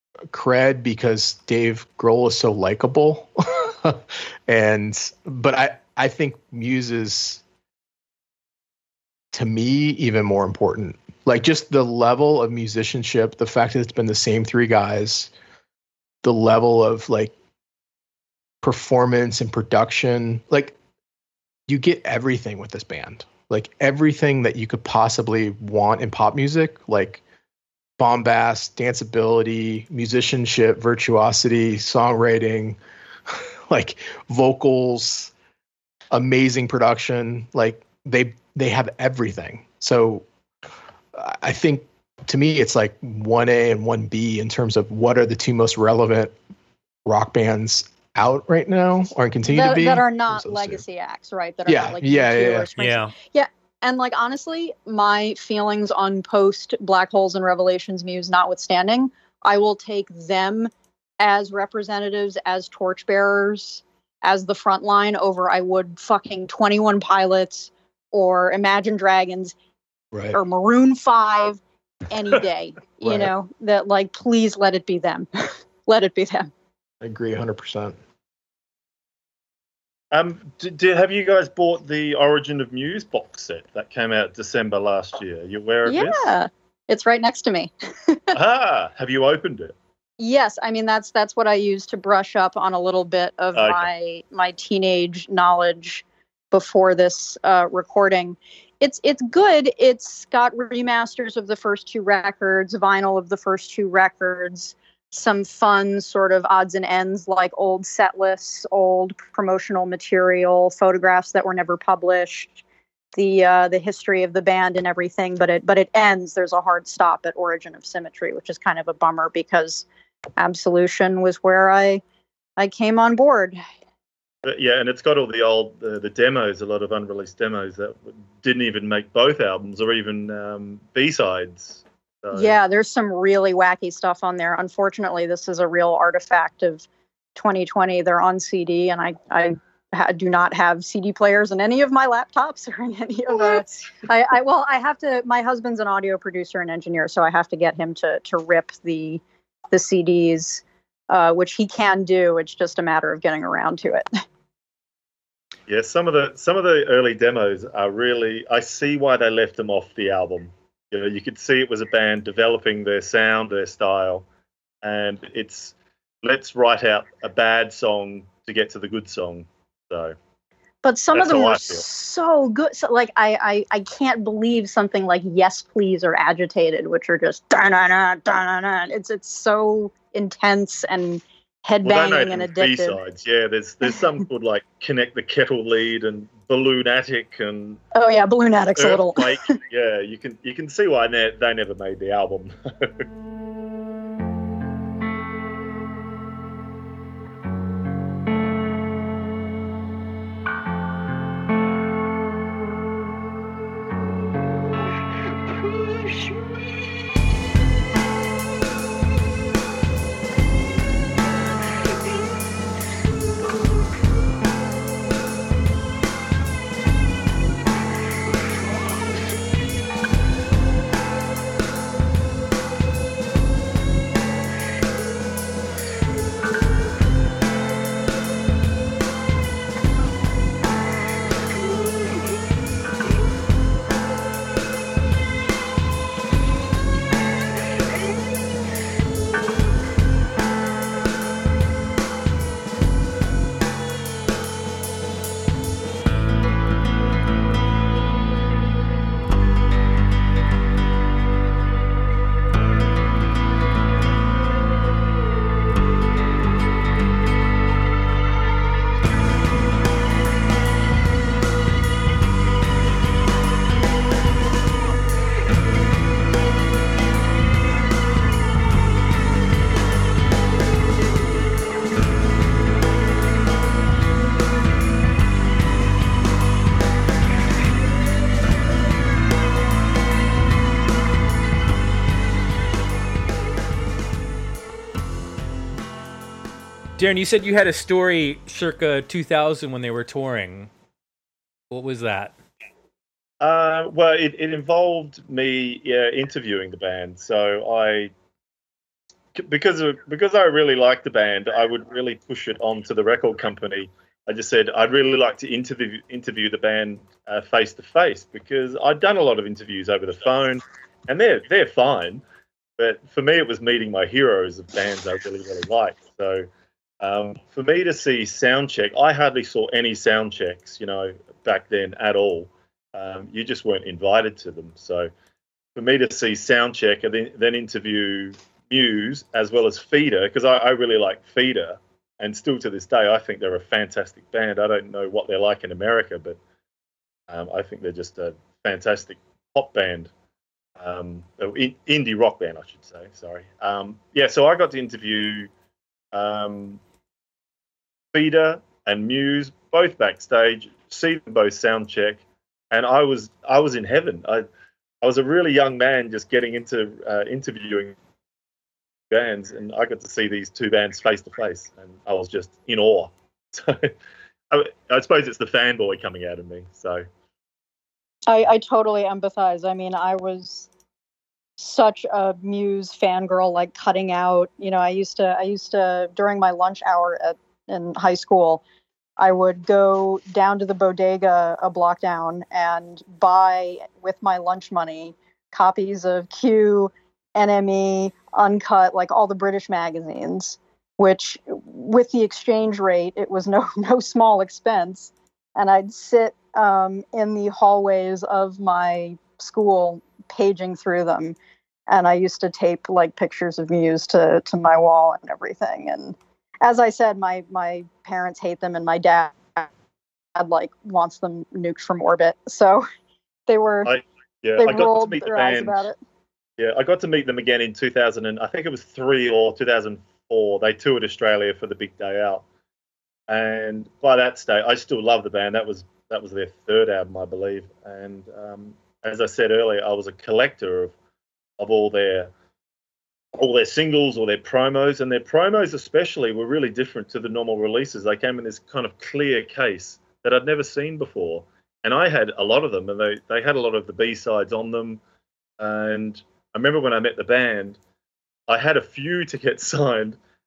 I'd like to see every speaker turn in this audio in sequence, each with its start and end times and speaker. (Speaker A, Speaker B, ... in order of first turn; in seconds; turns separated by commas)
Speaker A: 0.3-7.4, Speaker A: 9.3-15.3, Speaker A: 16.2-17.3, Speaker A: 18.6-20.8, Speaker A: 21.7-27.2, Speaker A: 28.0-32.8, Speaker A: 33.3-35.3, Speaker A: 36.1-40.3, Speaker A: 41.1-46.4, Speaker A: 47.0-50.8, Speaker B: 49.5-69.5, Speaker A: 51.7-52.7, Speaker C: 52.8-53.1, Speaker A: 70.1-70.4, Speaker B: 70.3-75.3, Speaker A: 73.0-73.3, Speaker B: 75.9-76.5, Speaker A: 77.0-78.0, Speaker D: 80.1-86.3, Speaker B: 85.9-88.3, Speaker D: 88.3-89.8, Speaker B: 90.2-112.6, Speaker D: 93.5-93.9, Speaker B: 113.1-119.8, Speaker B: 120.4-122.0, Speaker B: 122.6-123.6, Speaker D: 124.4-132.6, Speaker B: 132.3-149.2, Speaker B: 149.7-154.1, Speaker D: 155.7-164.2, Speaker D: 164.8-170.2, Speaker B: 170.8-183.0, Speaker D: 171.1-171.8, Speaker D: 181.8-187.8, Speaker B: 187.9-189.6, Speaker D: 188.8-193.1, Speaker C: 287.0-290.7, Speaker C: 291.7-292.3, Speaker D: 293.4-298.1, Speaker D: 299.4-312.2, Speaker D: 312.8-316.5, Speaker D: 317.0-325.1, Speaker D: 325.8-336.4, Speaker D: 337.3-340.1, Speaker D: 340.8-345.5, Speaker D: 346.1-346.8, Speaker D: 348.1-354.4, Speaker D: 355.0-357.9, Speaker D: 359.1-363.9, Speaker D: 364.5-367.1, Speaker B: 368.3-370.7, Speaker B: 371.6-378.6, Speaker B: 379.2-401.4, Speaker B: 401.9-409.7, Speaker B: 410.4-412.9, Speaker B: 413.5-413.9, Speaker D: 413.9-415.8, Speaker B: 414.6-416.0, Speaker D: 416.6-422.4, Speaker D: 423.3-430.9, Speaker D: 431.6-432.3, Speaker D: 433.4-445.0, Speaker D: 445.6-447.8, Speaker D: 448.5-450.2